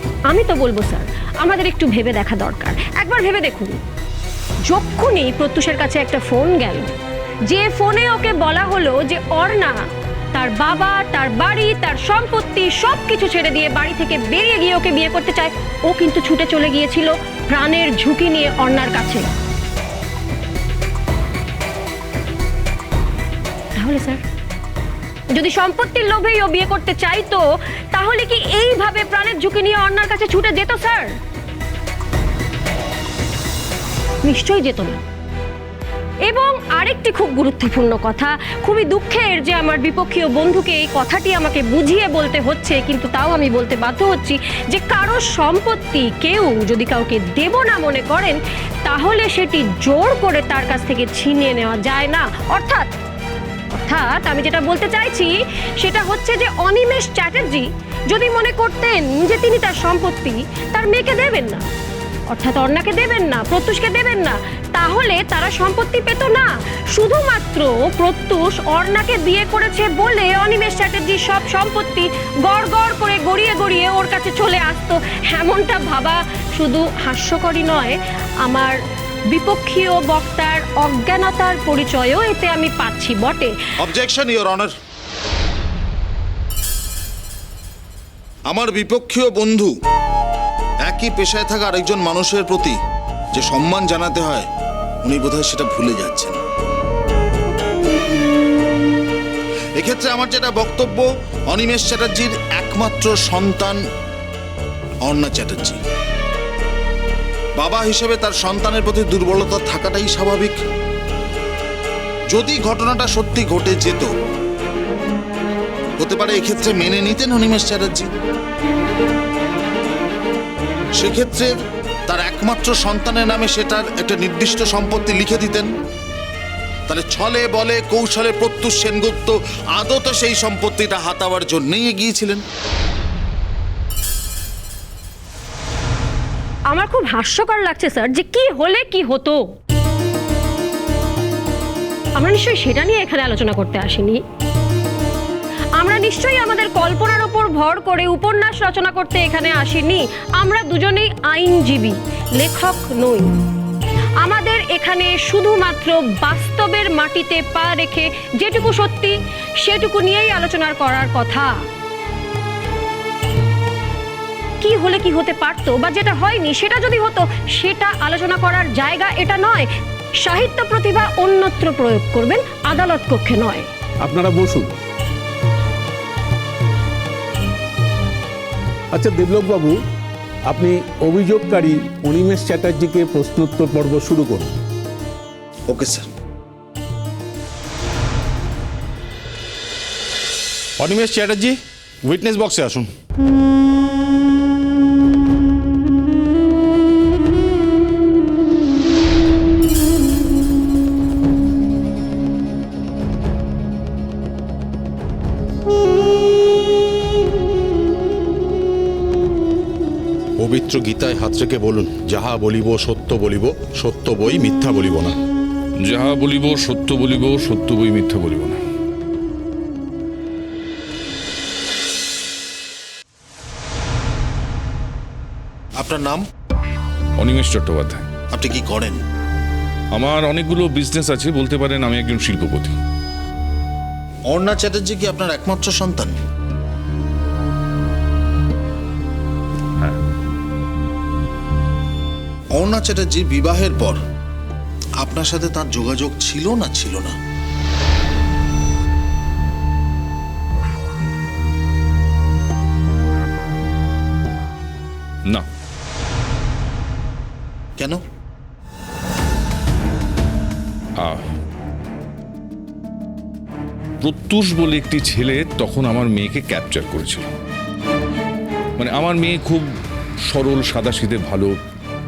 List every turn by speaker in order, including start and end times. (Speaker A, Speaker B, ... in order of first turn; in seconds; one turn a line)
Speaker A: 0.3-3.8
Speaker A: 4.7-6.9
Speaker A: 7.5-9.8
Speaker A: 10.3-19.3
Speaker A: 23.8-24.2
Speaker A: 25.3-31.1
Speaker A: 34.2-35.0
Speaker A: 36.2-52.9
Speaker A: 53.7-61.6
Speaker A: 62.3-78.8
Speaker A: 79.3-83.5
Speaker B: 83.8-84.7
Speaker B: 88.5-89.7
Speaker B: 90.8-92.7
Speaker B: 93.3-94.5
Speaker B: 95.0-96.4
Speaker B: 99.8-103.8
Speaker B: 105.0-105.8
Speaker B: 107.6-110.6
Speaker B: 112.3-114.1
Speaker B: 116.0-118.1
Speaker B: 121.0-121.5
Speaker B: 122.1-125.7
Speaker B: 126.9-132.4
Speaker A: 136.7-139.4
Speaker A: 142.2-144.2
Speaker A: 145.8-153.3
Speaker A: 154.2-161.5
Speaker A: 164.6-169.7
Speaker A: 170.2-173.7
Speaker C: 174.0-174.7
Speaker C: 178.9-179.8
Speaker C: 180.5-184.6
Speaker B: 185.7-186.1
Speaker D: 190.8-192.9
Speaker D: 210.4-215.2
Speaker E: 215.8-218.6
Speaker B: 225.8-226.2
Speaker E: 227.2-228.1
Speaker B: 228.3-229.0
Speaker E: 229.9-232.8
Speaker B: 234.3-236.1
Speaker B: 242.6-244.0
Speaker B: 245.0-247.1
Speaker E: 261.0-261.2
Speaker E: 264.0-267.3
Speaker E: 268.8-269.7
Speaker E: 270.3-271.5